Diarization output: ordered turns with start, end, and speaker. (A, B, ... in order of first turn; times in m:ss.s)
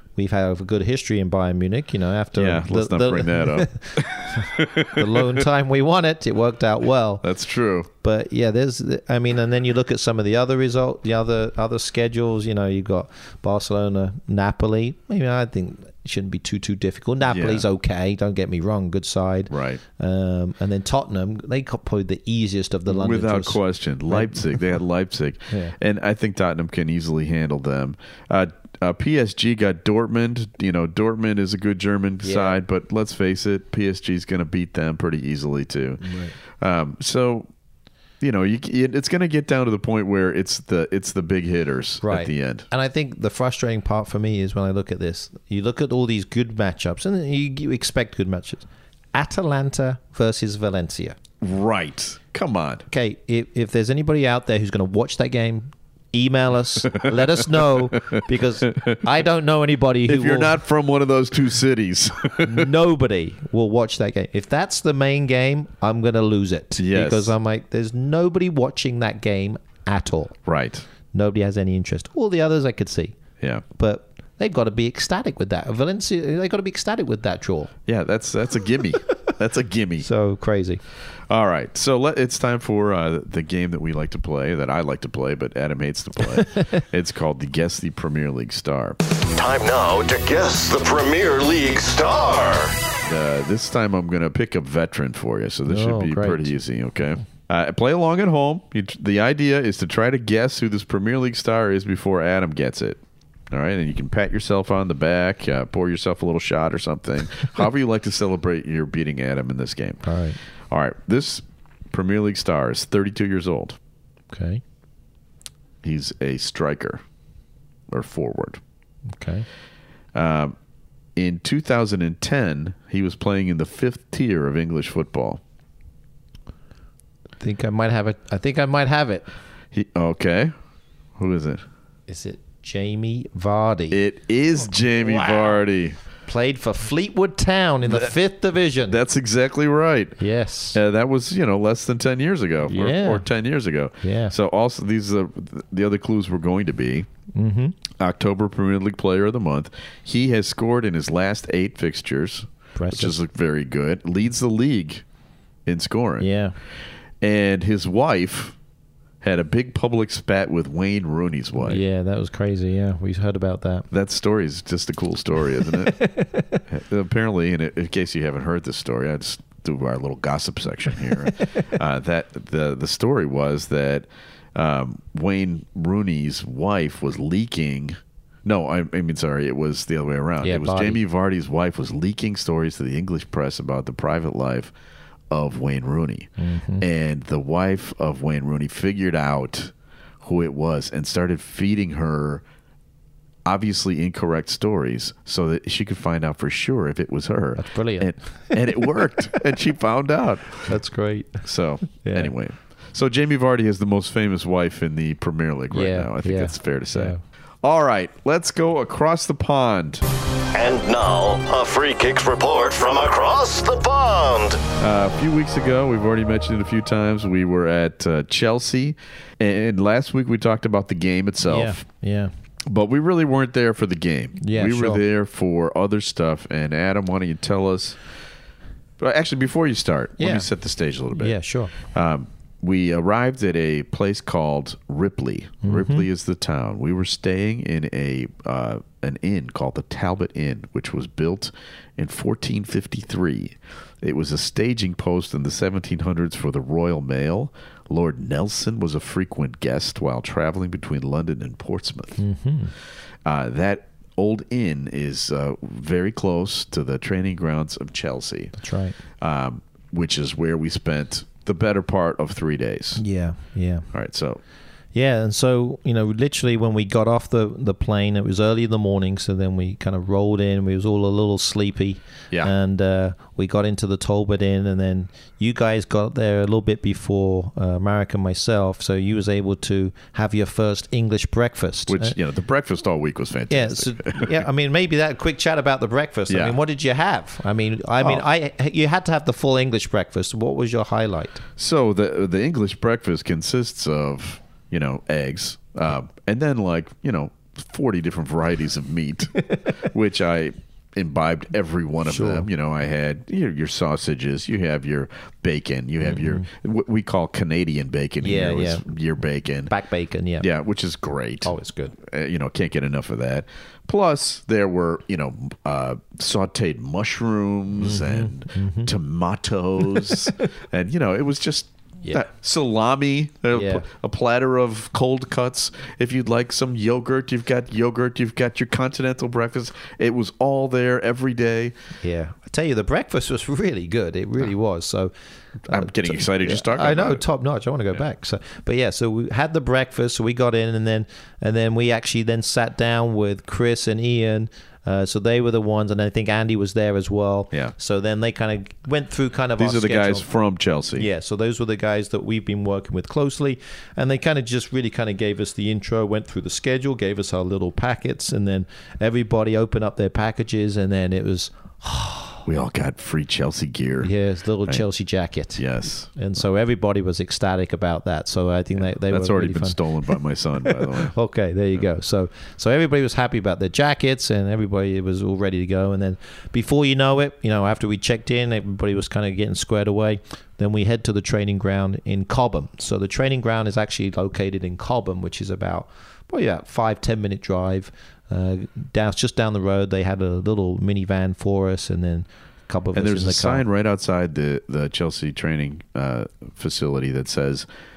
0:00.2-0:07.3 A
0:02.4-0:05.3 B
0:07.2-0:07.9 B
0:08.0-0:24.6 A
0:17.2-0:17.6 B
0:19.5-0:19.8 B
0:22.9-0:36.1 B
0:25.5-0:25.8 A
0:32.2-0:32.6 A
0:36.0-0:36.4 A
0:36.6-0:37.5 B
0:38.2-0:42.7 B
0:42.0-0:51.2 A
0:51.4-0:52.8 B
0:52.9-1:00.6 A
0:56.9-0:59.0 B
1:00.1-1:02.7 B
1:02.4-1:10.4 A
1:06.8-1:07.3 B
1:10.5-1:10.8 B
1:11.1-1:13.2 A
1:13.8-1:17.7 A
1:17.9-1:20.1 B
1:20.0-1:20.8 A
1:21.3-1:29.0 B
1:26.4-1:26.7 A
1:29.3-1:32.8 C
1:33.0-1:43.0 B
1:35.7-1:36.5 A
1:43.5-1:50.0 B
1:50.0-1:50.4 A
1:50.7-1:53.8 B
1:54.3-1:54.6 A
1:55.8-1:57.0 B
1:57.9-1:58.6 B
1:59.1-1:59.5 A
2:00.1-2:00.6 B
2:01.2-2:05.4 B
2:07.4-2:09.3 A
2:09.7-2:10.5 B
2:11.2-2:11.6 B
2:12.1-2:14.0 A
2:13.9-2:16.0 B
2:15.0-2:15.6 A
2:16.3-2:19.0 A
2:17.9-2:18.1 B
2:18.9-2:20.2 B
2:20.2-2:20.8 A
2:20.7-2:27.1 B
2:22.7-2:23.2 A
2:24.0-2:24.4 A
2:27.3-2:27.8 A
2:28.0-2:35.0 B
2:32.8-2:33.2 A
2:35.7-2:36.3 B
2:36.2-2:36.5 A
2:37.2-2:38.6 B
2:39.2-2:41.8 B
2:41.6-2:43.9 A
2:43.9-2:46.0 B
2:45.6-2:46.6 A
2:46.7-3:04.7 B
2:51.2-2:51.6 A
3:00.4-3:01.0 A
3:05.3-3:12.4 B
3:06.4-3:06.9 A
3:13.4-3:20.7 B
3:17.6-3:19.0 A
3:20.6-3:22.3 A
3:21.4-3:30.0 B
3:25.7-3:27.2 A
3:30.5-3:34.6 C
3:34.8-3:41.8 B
3:41.4-3:42.3 A
3:42.7-3:48.0 B
3:44.4-3:45.0 A
3:49.0-4:12.2 B
3:50.2-3:50.5 A
3:51.1-3:51.7 A
3:55.6-3:56.1 A
4:12.2-4:12.7 A
4:13.2-4:18.5 B
4:18.6-4:19.0 A
4:19.2-4:23.0 B
4:23.0-4:23.9 A
4:23.9-4:24.4 B
4:24.9-4:42.2 A
4:41.9-4:44.4 B
4:43.5-4:51.4 A
4:46.3-4:46.6 B
4:51.6-5:09.7 B
5:02.0-5:02.5 A
5:06.0-5:06.5 A
5:08.2-5:08.9 A
5:09.7-5:10.5 A
5:10.4-5:31.8 B
5:11.4-5:12.0 A
5:17.8-5:18.9 A
5:19.8-5:20.3 A
5:23.5-5:23.8 A
5:32.0-5:35.1 A
5:35.7-5:37.2 B
5:35.7-5:50.3 A
5:49.6-5:51.1 B
5:51.0-6:02.4 A
6:02.5-6:04.1 B
6:04.0-6:10.1 A
6:05.6-6:06.1 B
6:08.9-6:11.1 B
6:10.6-6:33.6 A
6:32.9-6:37.7 B